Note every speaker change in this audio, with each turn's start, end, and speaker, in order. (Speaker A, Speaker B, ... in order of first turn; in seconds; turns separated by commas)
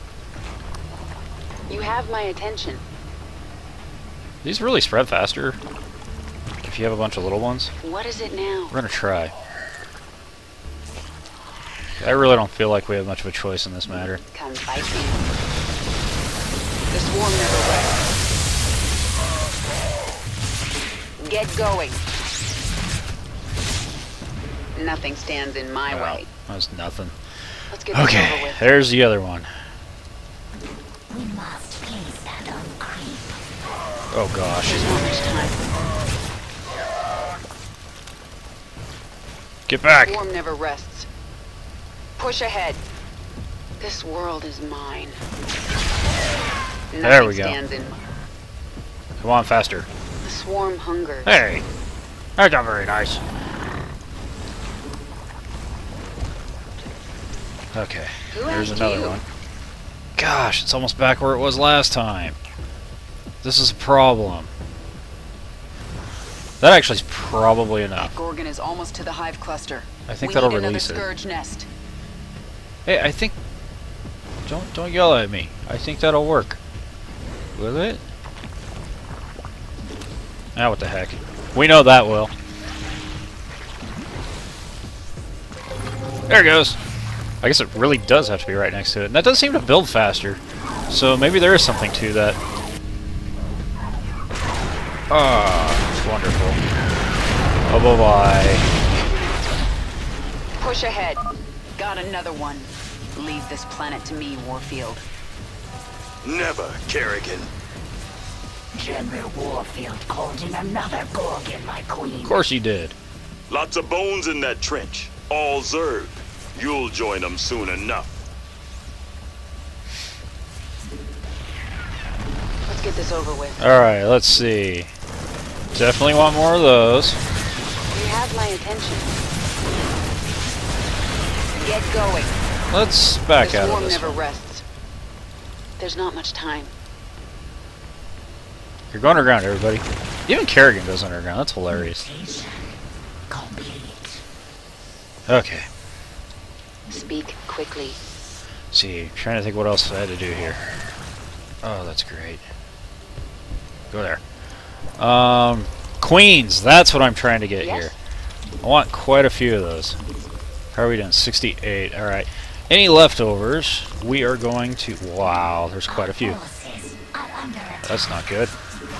Speaker A: 1.7-2.8, Speaker B: 4.4-5.6, Speaker B: 6.6-7.7, Speaker A: 7.8-8.8, Speaker B: 8.7-9.3, Speaker B: 12.0-14.2, Speaker A: 14.3-15.3, Speaker A: 16.9-18.1, Speaker A: 21.2-22.0, Speaker A: 24.7-26.3, Speaker B: 25.9-27.1, Speaker A: 27.7-28.7, Speaker B: 27.9-29.5, Speaker C: 31.1-33.4, Speaker B: 34.1-34.8, Speaker A: 34.6-35.6, Speaker B: 39.7-40.2, Speaker A: 40.0-41.1, Speaker A: 42.2-42.8, Speaker A: 43.8-45.2, Speaker A: 46.9-48.0, Speaker B: 47.0-47.6, Speaker B: 49.2-49.9, Speaker A: 50.2-51.4, Speaker B: 51.2-51.6, Speaker B: 52.4-53.2, Speaker B: 57.7-59.2, Speaker A: 58.3-59.2, Speaker B: 60.2-62.4, Speaker B: 63.4-64.5, Speaker B: 66.6-68.1, Speaker A: 68.0-71.7, Speaker B: 70.1-71.1, Speaker B: 72.8-73.3, Speaker B: 74.5-76.6, Speaker B: 77.5-78.0, Speaker B: 80.5-82.3, Speaker B: 86.3-86.8, Speaker B: 87.4-92.4, Speaker B: 95.1-96.6, Speaker B: 97.7-98.6, Speaker A: 100.6-101.2, Speaker A: 101.8-105.0, Speaker D: 106.2-107.5, Speaker C: 108.7-112.4, Speaker B: 112.2-112.9, Speaker D: 113.5-118.1, Speaker A: 122.7-123.6, Speaker B: 123.6-124.9, Speaker B: 125.7-127.2, Speaker A: 127.9-129.1, Speaker A: 131.5-132.4, Speaker B: 132.7-134.2, Speaker A: 133.4-134.6, Speaker A: 135.8-136.7, Speaker B: 138.9-142.0, Speaker C: 141.7-142.8, Speaker C: 143.3-144.2, Speaker B: 145.3-145.7, Speaker A: 146.9-148.0, Speaker B: 148.7-150.6, Speaker B: 151.6-152.4, Speaker B: 153.9-154.2, Speaker B: 155.0-157.9, Speaker A: 157.6-157.9, Speaker B: 158.6-159.9, Speaker B: 160.7-166.4, Speaker C: 165.9-168.0, Speaker B: 167.8-168.5